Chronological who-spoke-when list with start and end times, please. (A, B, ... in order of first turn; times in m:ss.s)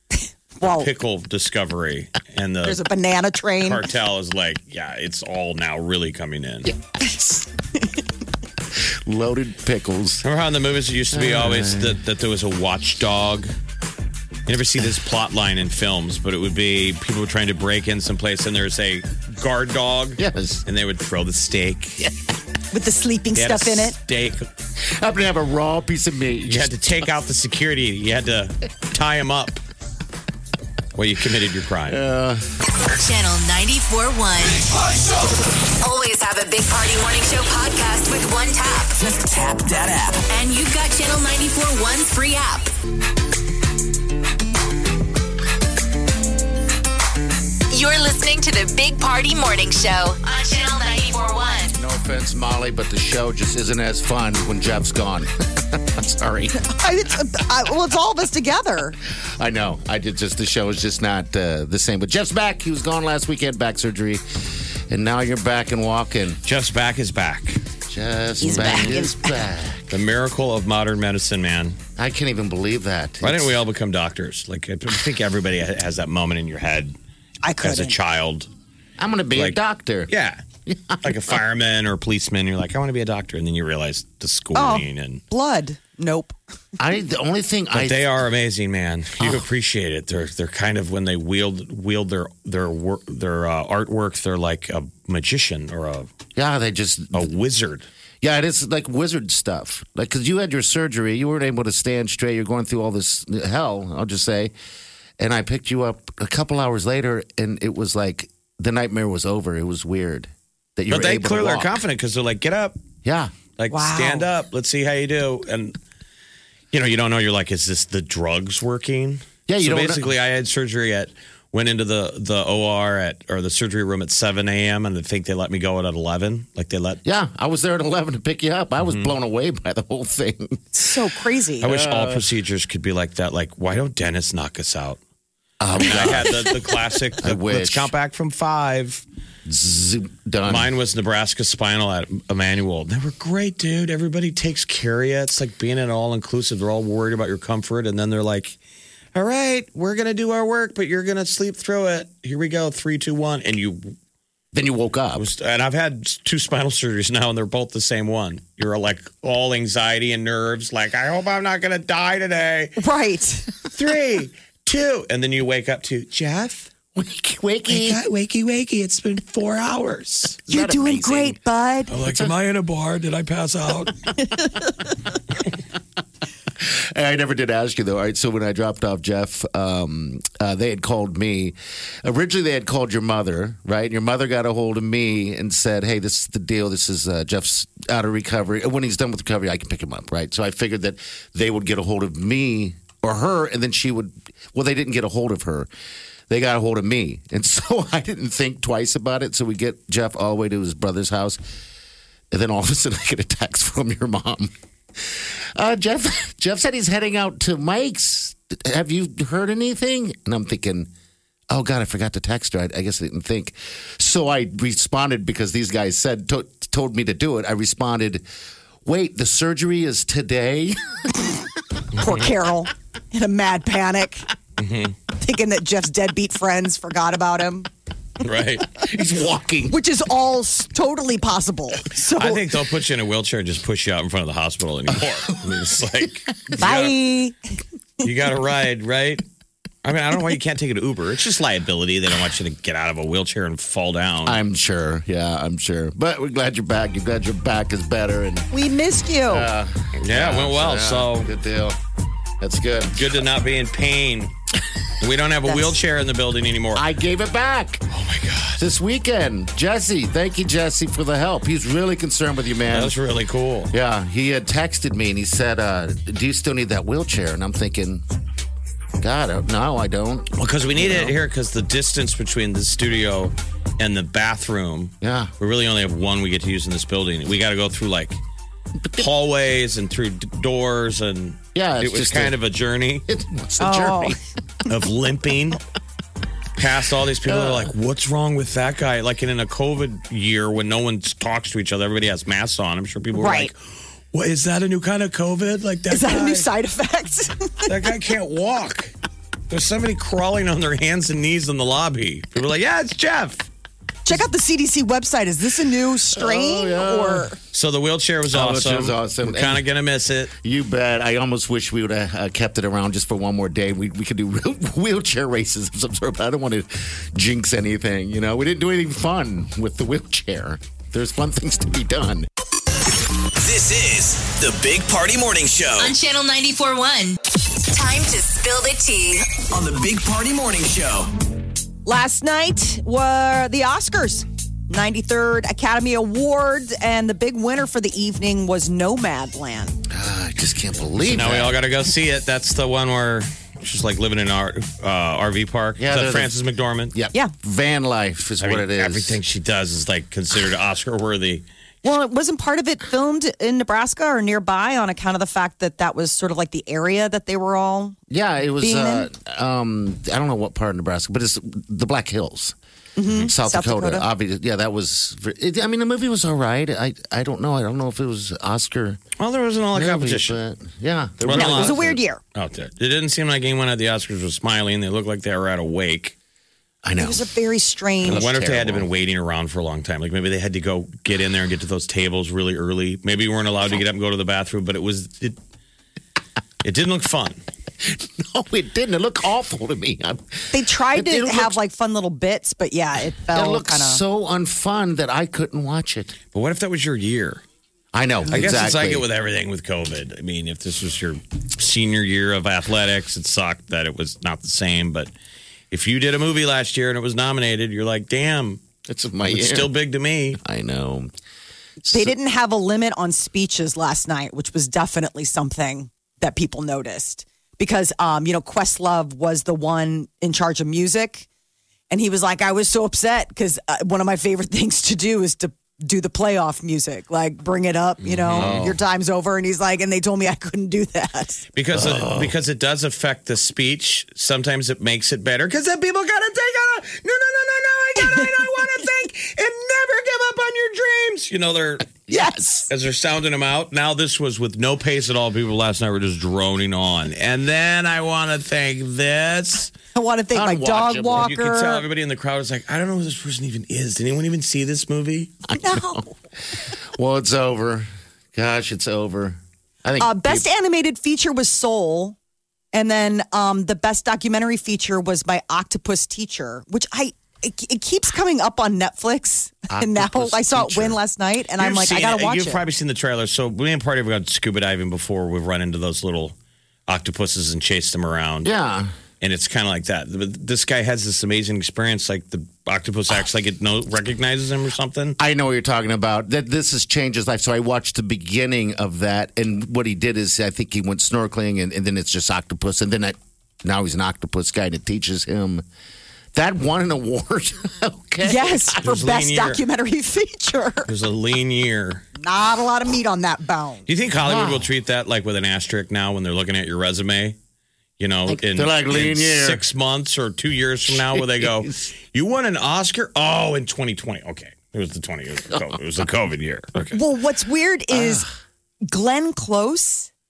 0:00.6-0:00.9 A
0:00.6-0:02.8 B
0:02.6-0:03.8 A
0:03.6-0:06.7 B
0:07.1-0:07.4 A
0:08.8-0:10.3 C
0:10.2-0:13.5 B
0:11.1-0:12.0 C
0:14.5-0:22.0 B
0:20.2-0:20.6 C
0:22.7-0:24.0 A
0:23.4-0:24.5 B
0:24.8-0:27.0 C
0:26.5-0:29.6 B
0:31.0-0:32.0 B
0:31.9-0:32.4 C
0:32.9-0:34.7 D
0:35.8-0:38.9 D
0:39.0-0:40.3 E
0:40.3-0:42.7 D
0:47.7-0:51.7 D
0:51.7-0:56.6 C
0:56.7-0:59.0 A
0:59.1-1:06.4 C
1:06.4-1:07.6 B
1:07.9-1:09.9 C
1:08.4-1:09.3 A
1:09.9-1:11.8 B
1:12.0-1:13.6 C
1:13.2-1:17.0 B
1:17.4-1:18.0 A
1:17.6-1:18.5 B
1:19.0-1:20.1 C
1:20.1-1:20.4 B
1:20.7-1:21.4 C
1:21.0-1:25.2 B
1:24.6-1:26.4 A
1:26.8-1:28.1 C
1:27.7-1:36.1 B
1:29.2-1:29.5 C
1:36.4-1:37.3 C
1:37.1-1:37.9 B
1:38.2-1:44.5 C
1:45.2-1:51.8 C
1:50.9-1:52.8 B
1:53.0-1:53.4 C
1:53.6-1:55.8 B
1:53.7-1:54.3 A
1:56.7-2:07.0 B
1:59.5-2:00.1 C
2:07.0-2:10.9 C
2:08.8-2:09.1 B
2:10.8-2:11.7 A
2:11.6-2:12.3 C
2:11.6-2:15.0 B
2:15.6-2:16.6 C
2:15.8-2:19.0 B
2:17.2-2:17.9 C
2:19.5-2:20.7 C
2:20.5-2:28.6 B
2:29.2-2:34.0 B
2:34.5-2:35.3 C
2:35.2-2:42.8 B
2:42.8-2:43.5 A
2:43.7-2:46.7 B
2:47.0-2:48.0 C
2:47.7-2:50.4 B
2:50.5-2:51.4 C
2:50.5-2:51.9 A
2:51.9-2:54.2 B
2:56.6-3:15.7 C
3:16.3-3:21.4 C
3:22.3-3:30.9 C
3:31.5-3:38.2 C
3:38.8-3:41.1 C
3:42.0-3:44.3 A
3:42.0-3:42.3 B
3:44.6-3:45.0 B
3:45.2-3:47.7 A
3:48.2-3:48.7 B
3:48.8-3:49.8 C
3:49.7-3:52.4 A
3:52.0-3:57.0 B
3:56.6-3:57.4 A
3:58.0-3:59.2 B
3:59.8-4:04.4 B
4:04.2-4:08.5 C
4:08.5-4:09.5 A
4:09.3-4:11.8 C
4:10.0-4:11.3 B
4:12.4-4:13.1 C
4:13.0-4:14.3 B
4:15.0-4:16.8 B
4:15.5-4:15.7 A
4:16.8-4:17.9 C
4:17.9-4:18.6 B
4:18.6-4:23.0 C
4:22.7-4:23.7 B
4:23.7-4:28.0 C
4:29.0-4:31.2 C
4:30.4-4:38.2 B
4:35.0-4:35.3 C
4:38.8-4:39.1 C
4:39.0-4:43.1 B
4:41.6-4:42.4 C
4:43.1-4:44.2 C
4:43.6-4:44.2 A
4:44.7-4:45.6 B
4:46.6-4:53.6 B
4:47.2-4:47.7 C
4:53.2-4:53.5 A
4:54.1-4:56.5 B
4:55.9-4:57.7 A
4:57.7-4:58.9 B
4:59.5-5:03.5 B
5:04.1-5:07.4 A
5:06.1-5:07.3 C
5:07.5-5:10.3 B
5:08.3-5:09.6 C
5:10.4-5:22.3 C
5:23.4-5:26.0 E
5:25.8-5:29.4 D
5:29.5-5:31.1 E
5:31.8-5:39.8 A
5:39.9-5:41.6 C
5:41.0-5:46.9 B
5:45.8-5:46.3 C
5:46.9-5:49.2 C
5:48.4-5:51.4 B
5:51.8-5:58.0 A
5:58.1-6:02.6 C
5:58.6-5:59.1 A
6:03.0-6:04.0 A
6:03.1-6:09.0 C
6:09.2-6:10.4 B
6:09.7-6:12.0 C
6:11.2-6:11.8 B
6:11.3-6:12.2 A
6:12.4-6:16.2 B
6:16.8-6:17.2 C
6:17.0-6:18.2 A
6:18.0-6:18.9 C
6:18.1-6:25.4 B
6:26.6-6:27.4 B
6:27.8-6:31.6 C
6:30.5-6:34.0 A
6:33.3-6:36.2 C
6:36.3-6:37.4 B
6:37.9-6:39.0 C
6:38.3-6:45.1 B
6:45.7-6:48.6 B
6:48.9-6:49.7 C
6:49.3-6:50.4 B
6:50.4-6:51.1 C
6:51.9-6:52.1 C
6:51.9-7:01.3 A
7:01.9-7:11.4 A
7:08.0-7:08.7 B
7:08.4-7:08.8 C
7:11.6-7:22.0 B
7:11.7-7:12.3 C
7:22.1-7:22.6 C
7:22.1-7:22.7 A
7:22.7-7:29.7 B
7:30.0-7:31.8 A
7:30.3-7:31.3 C
7:31.2-7:35.3 B
7:35.5-7:36.1 C
7:35.6-7:36.0 A
7:36.6-7:40.5 C
7:40.0-7:42.2 A
7:42.7-7:52.6 A
7:49.7-7:51.0 C
7:51.6-7:56.4 B
7:56.9-7:58.5 B
7:58.4-7:58.9 C
7:59.2-8:05.2 B
8:05.2-8:15.6 C
8:16.3-8:19.0 C
8:18.2-8:20.9 A
8:18.8-8:19.6 B
8:20.9-8:22.0 B
8:22.2-8:23.9 A
8:23.9-8:27.4 B
8:24.2-8:24.7 C
8:28.0-8:37.0 B
8:28.3-8:29.6 C
8:30.9-8:31.7 C
8:36.9-8:38.2 A
8:37.9-8:38.3 C
8:38.8-8:40.1 A